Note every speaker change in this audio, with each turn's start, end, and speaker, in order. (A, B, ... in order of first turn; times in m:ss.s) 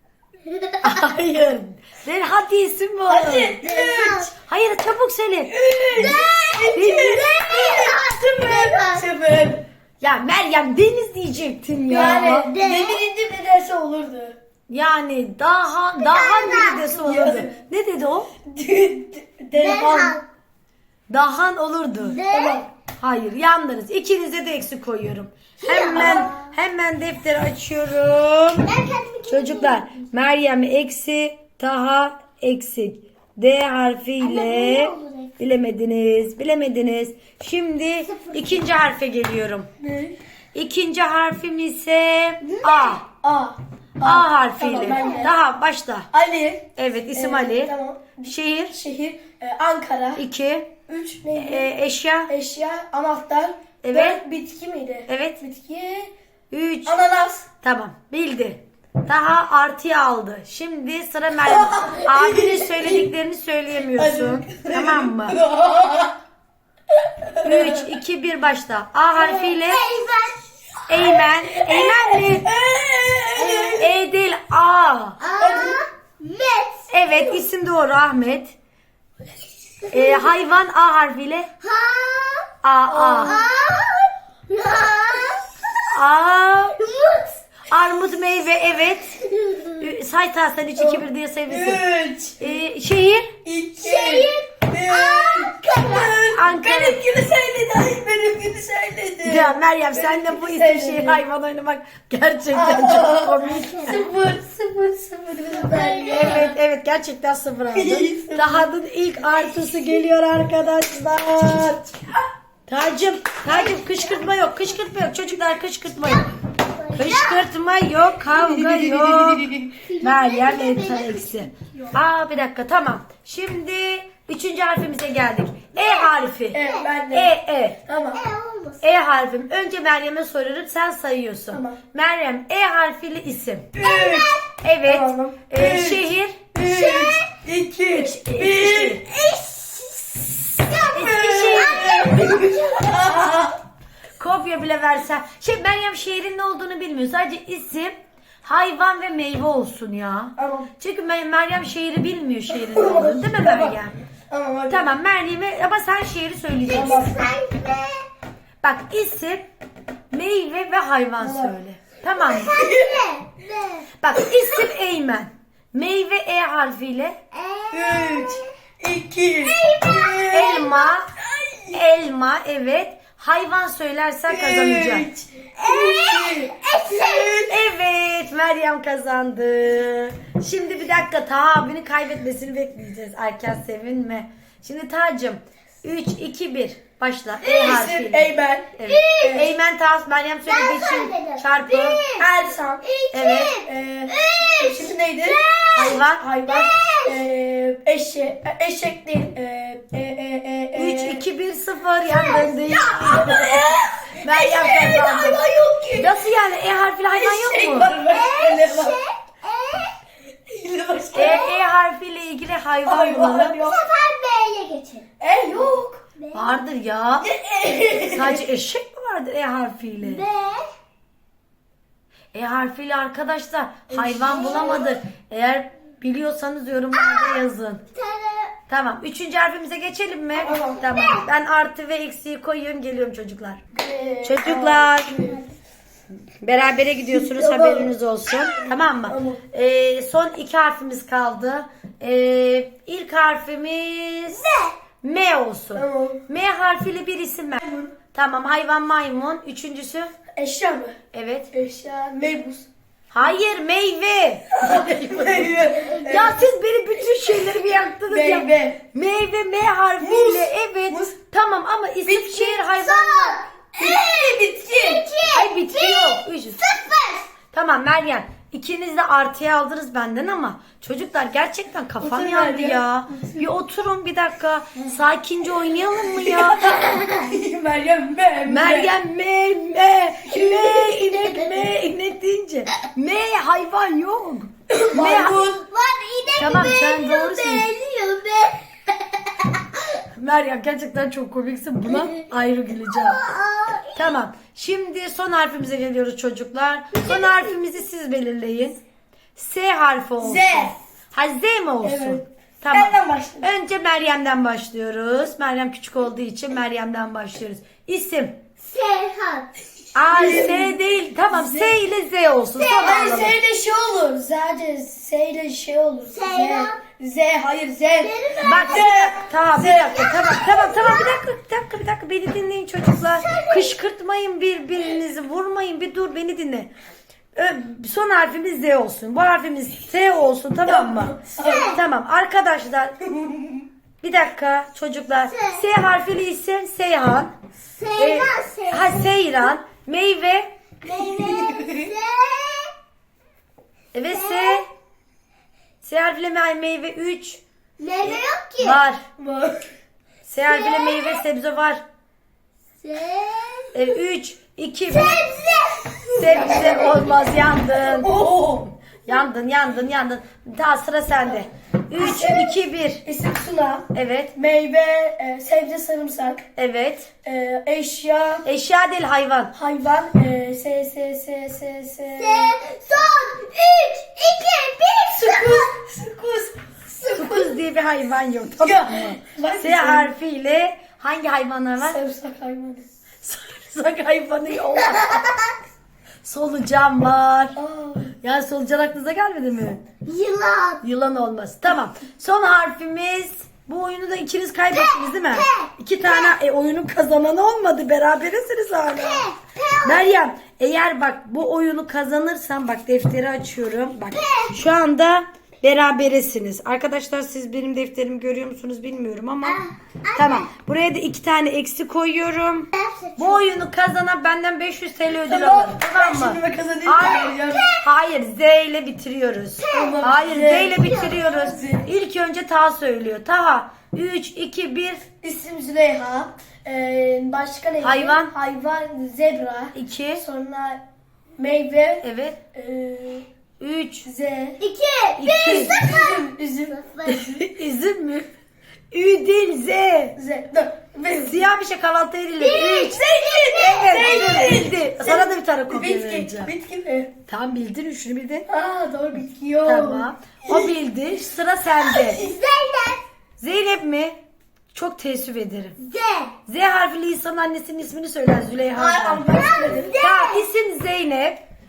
0:00.4-0:01.1 A
0:00.8-0:03.6 B
0:03.1-0:04.2 C
0:03.6-0:04.3 A
0:04.4-0:06.2 B
0:05.5-0:09.6 C
0:06.0-0:09.1 A
0:06.7-0:07.3 B
0:10.0-0:12.5 B
0:11.9-0:14.4 C
0:11.9-0:13.0 A
0:14.7-0:18.3 B
0:16.0-0:17.0 A
0:17.0-0:17.6 C
0:18.5-0:20.2 C
0:19.5-0:20.3 A
0:21.1-0:22.2 B
0:22.0-0:22.7 A
0:22.3-0:22.7 C
0:23.0-0:28.7 B
0:25.6-0:26.5 A
0:26.0-0:26.3 C
0:28.6-0:30.0 A
0:29.3-0:39.7 B
0:34.2-0:35.3 A
0:38.1-0:38.6 A
0:39.8-0:40.2 C
0:40.5-0:43.0 B
0:42.4-0:43.0 A
0:43.2-0:45.3 C
0:44.0-0:46.1 B
0:44.8-0:45.3 A
0:46.1-0:50.3 C
0:46.8-0:47.7 B
0:48.2-0:48.8 B
0:50.2-0:50.7 B
0:50.9-0:51.7 C
0:51.4-0:52.3 B
0:52.3-0:56.1 C
0:53.8-0:54.2 B
0:55.1-0:55.4 B
0:56.5-0:57.0 B
0:56.9-0:57.5 C
0:57.6-1:05.4 B
1:01.4-1:03.1 C
1:04.0-1:06.2 C
1:07.4-1:07.8 C
1:07.4-1:09.8 B
1:09.1-1:10.4 A
1:10.9-1:12.5 B
1:11.5-1:13.8 C
1:13.4-1:15.2 B
1:15.2-1:17.4 A
1:15.4-1:15.8 C
1:16.9-1:18.6 B
1:19.9-1:20.3 A
1:19.9-1:21.5 B
1:21.6-1:22.5 A
1:22.6-1:23.4 B
1:22.9-1:23.4 C
1:23.2-1:25.5 A
1:25.9-1:26.8 B
1:26.8-1:27.4 A
1:27.7-1:29.2 B
1:29.4-1:29.8 A
1:29.8-1:31.8 B
1:30.8-1:32.6 C
1:32.4-1:33.3 B
1:33.4-1:41.2 C
1:33.8-1:36.2 A
1:36.1-1:37.0 B
1:39.2-1:44.0 B
1:42.5-1:46.5 C
1:43.4-1:44.1 A
1:45.6-1:46.5 A
1:46.1-1:51.8 B
1:47.7-1:48.7 C
1:51.4-1:52.1 C
1:52.7-1:56.3 B
1:53.5-1:54.2 A
1:56.0-1:57.5 A
1:56.9-1:59.5 B
1:58.3-1:59.8 C
1:59.8-2:01.5 A
2:00.0-2:06.6 B
2:05.8-2:06.9 A
2:06.5-2:07.3 C
2:07.1-2:07.8 B
2:07.8-2:08.2 C
2:08.1-2:08.8 A
2:08.8-2:13.8 B
2:11.5-2:11.8 C
2:13.8-2:19.0 C
2:13.8-2:14.4 A
2:14.6-2:16.5 B
2:16.6-2:17.3 A
2:17.9-2:19.0 B
2:19.0-2:23.2 A
2:20.9-2:23.6 C
2:21.0-2:22.5 B
2:24.2-2:34.0 B
2:30.4-2:30.7 C
2:32.5-2:33.8 C
2:34.3-2:34.9 C
2:34.7-2:37.1 B
2:36.7-2:37.3 C
2:36.7-2:38.1 A
2:38.6-2:39.5 B
2:40.1-2:42.6 B
2:41.2-2:41.6 C
2:42.2-2:43.9 A
2:42.5-2:43.0 C
2:44.0-2:47.2 B
2:47.3-2:48.4 A
2:47.7-2:50.6 C
2:49.4-2:51.0 A
2:50.3-2:51.1 B
2:51.2-2:51.8 C
2:51.7-2:55.1 B
2:54.3-2:57.6 C
2:55.6-2:57.3 A
2:57.5-3:12.0 B
3:07.4-3:09.5 C
3:08.8-3:09.5 A
3:10.4-3:12.3 A
3:12.2-3:12.8 C
3:12.8-3:17.2 A
3:13.1-3:13.6 B
3:13.6-3:15.4 C
3:15.8-3:16.2 B
3:16.1-3:21.2 C
3:20.8-3:23.6 B
3:22.1-3:23.3 A
3:23.1-3:26.2 C
3:24.2-3:25.4 B
3:26.0-3:27.9 B
3:27.1-3:29.0 C
3:28.1-3:30.0 A
3:30.5-3:31.4 C
3:31.1-3:31.6 A
3:31.1-3:33.6 B
3:32.8-3:33.8 C
3:33.6-3:35.1 A
3:35.2-3:36.0 C
3:36.2-3:36.6 A
3:36.3-3:37.3 B
3:37.2-3:38.5 C
3:38.1-3:40.2 B
3:40.0-3:40.7 A
3:42.3-3:47.8 B
3:43.9-3:44.8 C
3:44.3-3:45.0 A
3:46.9-3:47.4 A
3:47.9-3:48.6 A
3:48.7-3:53.6 B
3:50.4-3:51.3 A
3:50.4-3:50.8 C
3:53.7-3:55.4 C
3:54.2-3:55.2 B
3:55.1-3:55.5 A
3:56.4-4:04.5 B
3:57.1-3:59.4 C
4:04.3-4:04.7 A
4:05.0-4:07.6 B
4:05.8-4:06.2 C
4:07.6-4:08.0 C
4:08.1-4:10.1 B
4:10.4-4:11.0 C
4:11.1-4:11.5 B
4:11.5-4:12.7 C
4:13.1-4:23.4 B
4:14.5-4:16.5 C
4:18.1-4:18.8 C
4:20.0-4:21.2 C
4:22.0-4:22.6 C
4:22.7-4:27.3 A
4:23.8-4:25.0 C
4:25.3-4:26.6 B
4:27.5-4:36.8 B
4:32.0-4:33.5 C
4:36.0-4:39.0 C
4:36.8-4:37.3 A
4:38.5-4:45.4 B
4:40.4-4:41.6 A
4:44.7-4:45.6 C
4:45.0-4:50.0 A
4:46.4-4:47.7 B
4:50.2-4:53.2 B
4:51.9-4:54.2 A
4:54.0-4:58.8 B
4:57.0-4:57.4 A
4:59.4-5:08.4 B
5:00.2-5:00.8 C
5:01.8-5:03.5 C
5:08.6-5:09.5 A
5:10.0-5:13.4 B
5:10.1-5:10.8 C
5:11.3-5:11.8 C
5:12.6-5:13.0 A
5:12.8-5:20.2 C
5:16.1-5:16.8 A
5:18.0-5:18.8 A
5:18.4-5:26.7 B
5:20.0-5:21.2 A
5:23.1-5:23.8 A
5:27.4-5:33.0 B
5:30.7-5:31.7 C
5:31.4-5:31.8 A
5:33.1-5:33.6 C
5:34.0-5:37.3 B
5:35.3-5:35.7 A
5:37.7-5:39.1 A
5:38.0-5:40.5 B
5:40.8-5:42.7 A
5:40.9-5:41.9 C
5:43.9-5:44.7 B
5:44.1-5:44.6 A
5:45.8-5:47.4 B
5:47.8-5:48.8 A
5:48.0-5:49.0 B
5:49.2-5:49.7 C
5:50.3-5:51.8 B
5:50.4-5:51.2 A
5:52.8-5:53.9 A
5:53.7-5:55.2 B
5:54.9-5:57.4 A
5:56.1-5:56.9 C
5:56.2-5:58.1 B
5:58.0-5:58.7 C
5:59.0-6:03.0 B
6:01.3-6:06.4 C
6:03.9-6:04.3 B
6:06.6-6:07.1 B
6:07.2-6:08.5 C
6:08.4-6:09.5 B
6:09.5-6:12.6 C
6:12.2-6:15.7 A
6:15.1-6:17.5 C
6:17.0-6:22.0 B
6:18.6-6:20.1 C
6:21.8-6:22.8 C
6:23.2-6:25.3 B
6:24.7-6:25.5 A
6:26.2-6:27.6 B
6:27.6-6:28.1 C
6:28.2-6:29.8 B
6:30.1-6:30.8 A
6:30.8-6:39.3 B
6:34.7-6:36.4 A
6:38.9-6:40.1 A
6:39.8-6:49.6 B
6:44.1-6:44.6 A
6:49.4-6:50.5 A
6:50.2-6:57.3 B
6:52.7-6:53.6 A
6:55.3-6:57.7 C
6:57.0-6:57.9 A
6:57.8-7:05.0 B
6:59.6-7:01.4 A
6:59.7-7:01.9 C
7:05.2-7:10.8 C
7:07.8-7:08.3 B
7:09.7-7:10.2 B
7:11.4-7:13.2 C
7:12.0-7:12.4 B
7:13.6-7:14.1 B
7:14.0-7:14.6 C
7:14.6-7:17.3 A
7:15.2-7:15.8 B
7:15.4-7:16.8 C
7:17.1-7:18.3 B
7:18.9-7:20.2 B
7:20.2-7:21.5 C
7:21.2-7:26.5 B
7:22.4-7:24.5 A
7:22.9-7:27.1 C
7:27.3-7:28.5 B
7:28.5-7:30.7 C
7:29.6-7:32.2 B
7:31.8-7:33.0 A
7:33.4-7:34.2 B
7:34.7-7:35.8 B
7:35.8-7:36.3 A
7:36.5-7:39.3 B
7:38.7-7:39.9 C
7:39.3-7:40.5 A
7:40.0-7:41.4 B